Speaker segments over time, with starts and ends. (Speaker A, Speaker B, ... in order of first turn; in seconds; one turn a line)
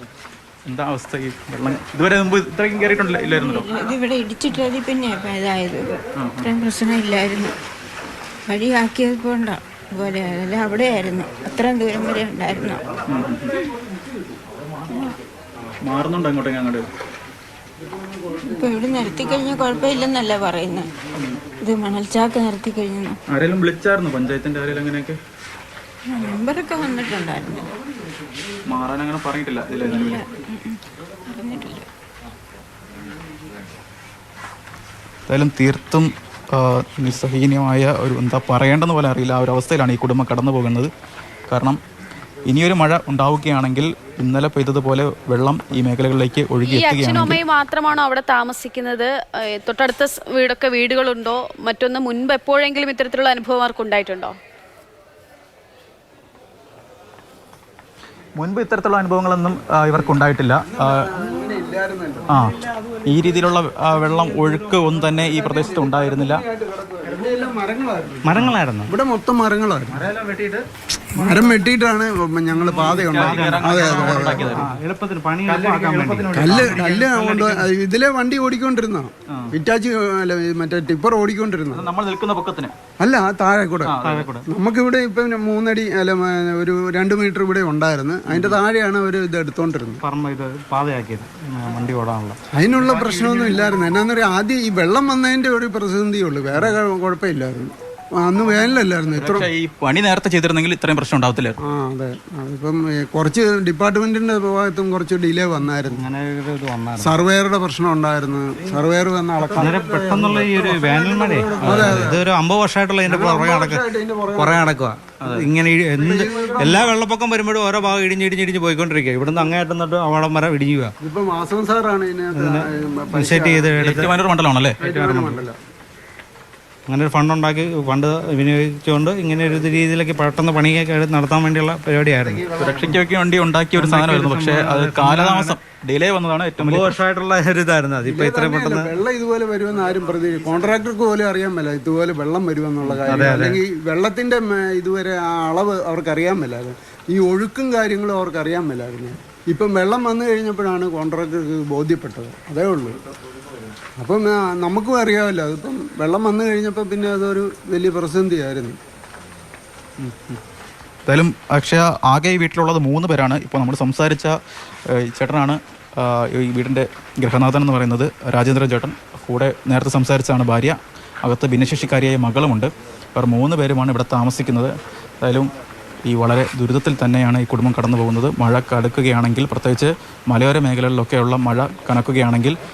Speaker A: 0.7-3.7
Speaker B: 3.3-7.5
Speaker A: 6.2-6.5
Speaker B: 8.5-12.8
Speaker A: 13.1-13.6
Speaker B: 14.9-15.1
Speaker A: 15.8-16.9
Speaker B: 18.4-20.9
Speaker B: 21.6-23.2
Speaker A: 23.3-25.2
Speaker B: 26.1-27.7
Speaker A: 28.7-30.2
Speaker B: 29.9-31.9
Speaker A: 35.3-40.9
Speaker A: 41.5-41.8
Speaker A: 42.5-47.4
Speaker C: 46.6-54.3
Speaker A: 58.4-61.0
Speaker D: 59.9-62.3
Speaker A: 62.3-62.5
Speaker E: 62.7-63.0
Speaker A: 63.0-66.4
Speaker D: 65.0-70.0
Speaker E: 68.2-68.9
Speaker E: 69.9-70.7
Speaker D: 71.1-74.5
Speaker E: 71.2-71.5
Speaker E: 72.7-77.7
Speaker A: 72.8-74.7
Speaker D: 76.3-81.8
Speaker A: 81.7-82.7
Speaker D: 83.0-83.9
Speaker A: 83.8-84.2
Speaker E: 84.0-84.5
Speaker D: 84.5-90.0
Speaker E: 90.0-93.6
Speaker D: 92.5-99.5
Speaker A: 99.1-101.5
Speaker D: 101.7-106.1
Speaker E: 105.8-107.2
Speaker D: 107.0-112.2
Speaker E: 109.5-120.9
Speaker A: 111.6-112.1
Speaker D: 113.0-114.7
Speaker A: 115.2-115.5
Speaker D: 115.9-116.9
Speaker D: 121.0-124.0
Speaker E: 122.3-124.1
Speaker A: 123.8-124.8
Speaker E: 124.8-125.4
Speaker D: 124.8-125.6
Speaker E: 126.9-132.9
Speaker A: 132.6-137.0
Speaker E: 133.7-135.6
Speaker E: 136.6-138.9
Speaker D: 138.0-152.9
Speaker E: 142.8-143.6
Speaker A: 143.1-143.4
Speaker D: 154.0-158.8
Speaker A: 160.0-160.4
Speaker A: 161.1-164.3
Speaker A: 164.9-174.7
Speaker A: 175.2-175.5
Speaker A: 176.1-182.6